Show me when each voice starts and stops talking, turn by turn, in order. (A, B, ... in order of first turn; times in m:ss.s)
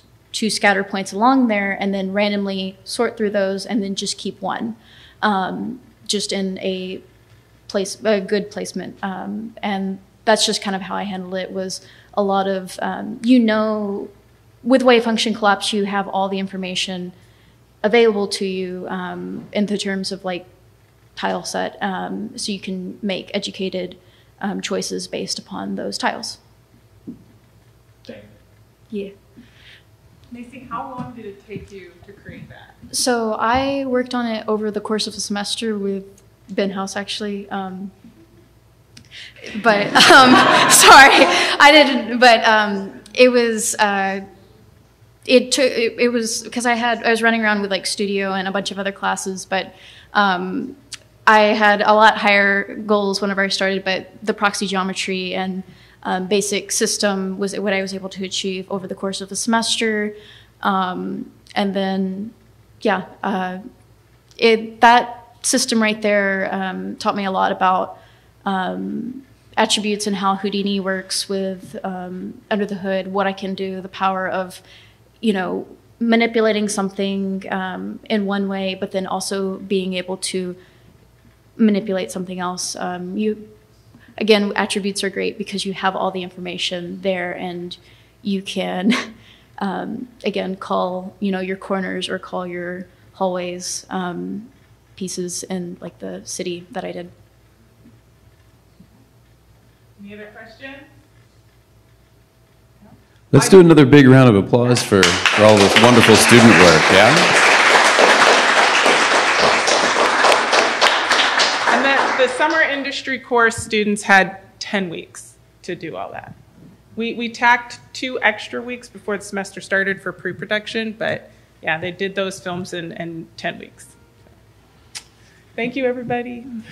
0:00.3-0:07.0 A
0:07.7-0:14.1 A
0:14.6-0:17.1 A
0:17.8-0:20.5 A
0:21.1-0:26.4 A
0:30.3-0:32.7 B
0:32.9-0:37.9 A
0:39.4-0:44.2 A
0:45.2-1:03.6 A
1:04.4-1:14.6 A
1:15.2-1:20.6 A
1:21.6-1:23.5 A
1:24.2-1:37.1 A
1:40.0-1:40.8 B
1:43.3-1:47.3 C
1:51.7-1:56.4 B
1:56.9-2:03.9 B
2:05.6-2:06.5 B